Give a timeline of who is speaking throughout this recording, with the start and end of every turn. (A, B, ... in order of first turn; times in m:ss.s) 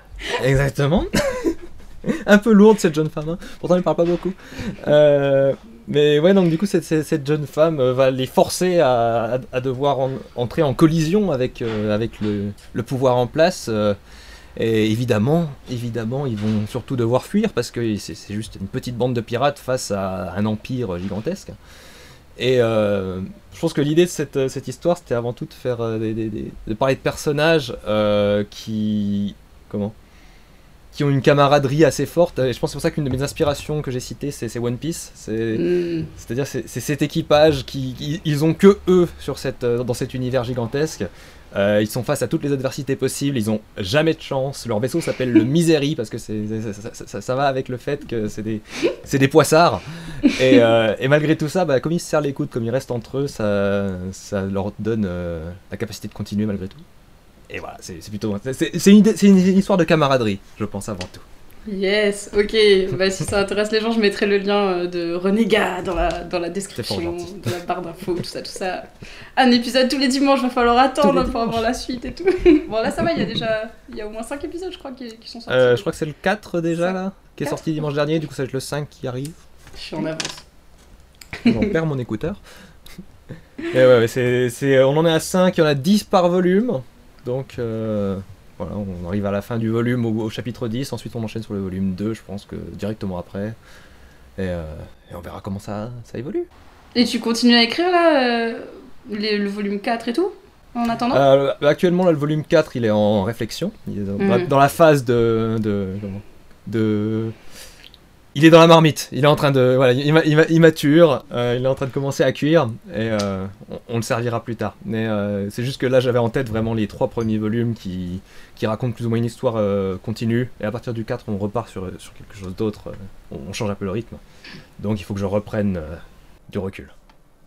0:00.4-0:14.0 A
0:14.6-0:21.6 A
0:22.4-0:30.0 A
0:30.9-0:35.6 A
0:35.6-0:36.1 B
0:36.2-0:56.8 A
0:57.5-1:01.2 A
1:01.7-1:15.9 B
1:06.8-1:07.5 A
1:11.0-1:11.6 A
1:15.5-1:19.4 A
1:19.8-1:20.5 B
1:21.4-1:21.7 B
1:21.4-1:22.4 A
1:23.7-1:33.6 A
1:34.4-1:36.5 A
1:37.0-1:41.2 B
1:41.1-1:47.4 A
1:44.2-1:44.5 B
1:48.4-2:04.2 A
2:04.8-2:06.9 A